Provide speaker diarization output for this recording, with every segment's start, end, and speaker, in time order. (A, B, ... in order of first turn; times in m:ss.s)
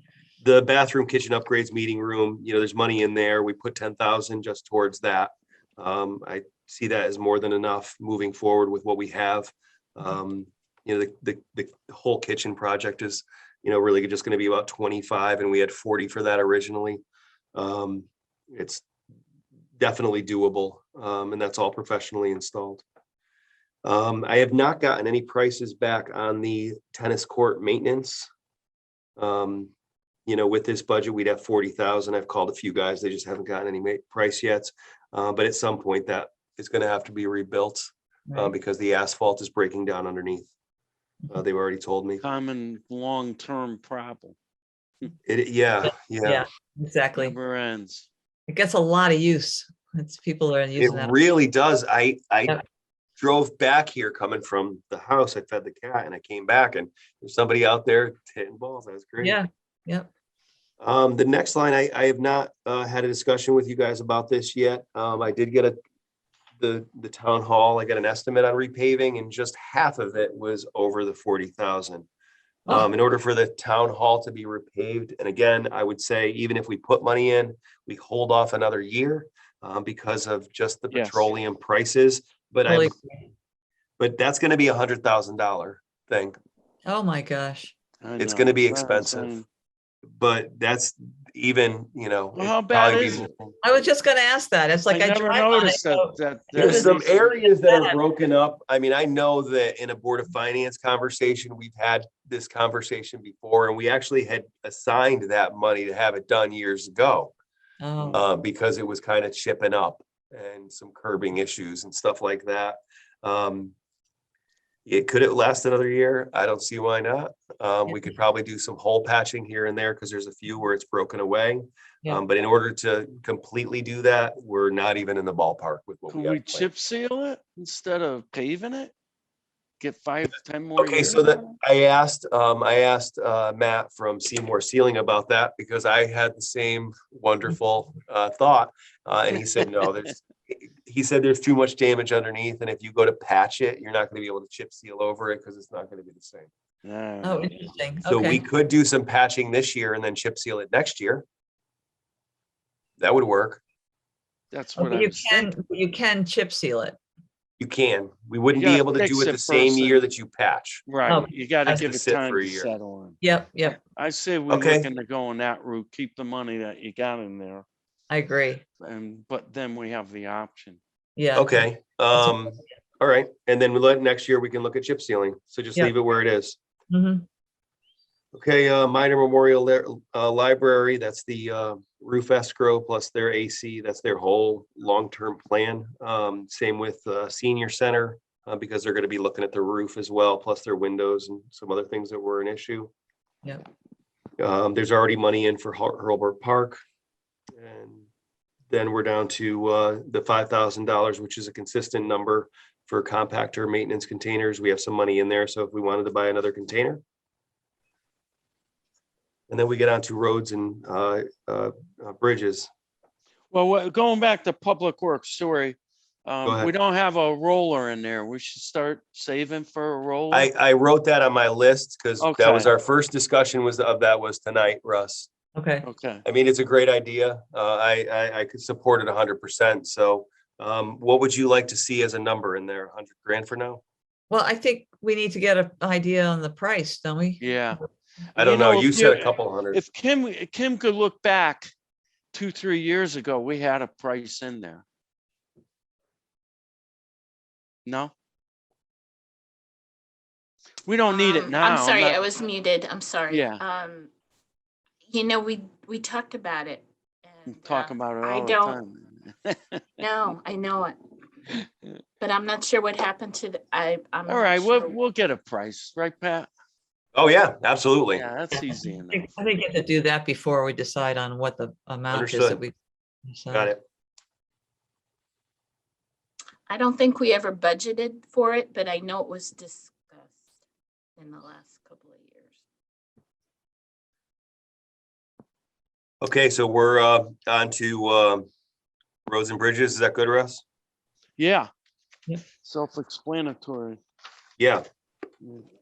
0:00.4-0:17.0 A
0:17.5-0:18.8 A
0:19.8-0:22.8 A
0:23.8-0:28.3 A
0:29.2-0:29.7 A
0:30.2-0:40.5 A
0:38.3-0:38.5 B
0:41.3-0:42.2 A
0:42.2-0:44.4 C
0:45.2-0:46.4 A
0:46.2-0:47.3 B
0:47.2-0:48.1 C
0:48.5-0:51.2 B
0:50.8-0:52.6 A
0:53.2-0:59.4 A
0:59.2-1:00.1 B
1:00.8-1:05.7 A
1:06.6-1:12.1 A
1:12.7-1:22.9 A
1:20.9-1:21.3 C
1:22.7-1:23.3 B
1:24.0-1:26.4 A
1:26.8-1:27.7 B
1:28.0-1:29.4 C
1:28.2-1:29.3 A
1:30.2-1:33.6 A
1:32.3-1:33.3 C
1:33.6-1:38.0 B
1:34.9-1:37.1 C
1:36.5-1:47.3 A
1:47.8-1:48.2 B
1:48.1-1:53.7 A
1:54.8-2:06.7 A
2:06.1-2:08.9 C
2:09.8-2:11.3 C
2:10.8-2:26.5 A
2:26.8-2:27.6 C
2:27.2-2:28.4 B
2:28.1-2:31.2 A
2:33.0-2:33.6 A
2:34.5-2:35.5 C
2:34.8-2:37.0 B
2:37.6-2:40.8 A
2:38.5-2:40.0 C
2:40.9-2:43.2 C
2:41.1-2:41.8 B
2:41.7-2:42.7 A
2:43.2-2:43.8 B
2:43.8-2:47.6 C
2:44.5-2:44.9 A
2:48.1-2:48.6 B
2:48.8-2:50.8 C
2:51.2-2:51.6 B
2:51.3-2:56.6 A
2:56.9-2:57.2 B
2:58.3-3:12.9 A
3:14.4-3:16.8 A
3:17.6-3:18.1 A
3:18.7-3:27.0 A
3:29.5-3:32.7 A
3:33.5-3:40.5 C
3:36.4-3:36.7 A
3:40.3-3:45.3 A
3:42.2-3:42.7 C
3:45.5-3:45.8 B
3:45.8-3:46.2 C
3:46.2-3:53.8 A
3:54.3-3:57.8 B
3:57.4-3:57.8 C
3:58.4-3:59.8 A
3:58.4-4:01.7 C
4:02.3-4:04.8 C
4:07.8-4:08.1 C
4:10.8-4:12.3 C
4:11.1-4:14.1 D
4:13.3-4:13.6 C
4:15.1-4:18.8 D
4:17.5-4:19.8 C
4:20.0-4:21.0 D
4:22.2-4:25.0 D
4:24.3-4:26.5 C
4:27.1-4:28.2 A
4:28.1-4:29.3 C
4:28.5-4:32.7 B
4:32.1-4:32.6 A
4:33.2-4:33.7 B
4:33.5-4:33.8 A
4:36.7-4:40.5 D
4:41.2-4:42.6 D
4:46.2-4:48.5 A
4:49.3-4:50.6 A
4:51.4-4:51.7 C
4:52.6-4:54.0 C
4:54.6-4:54.8 A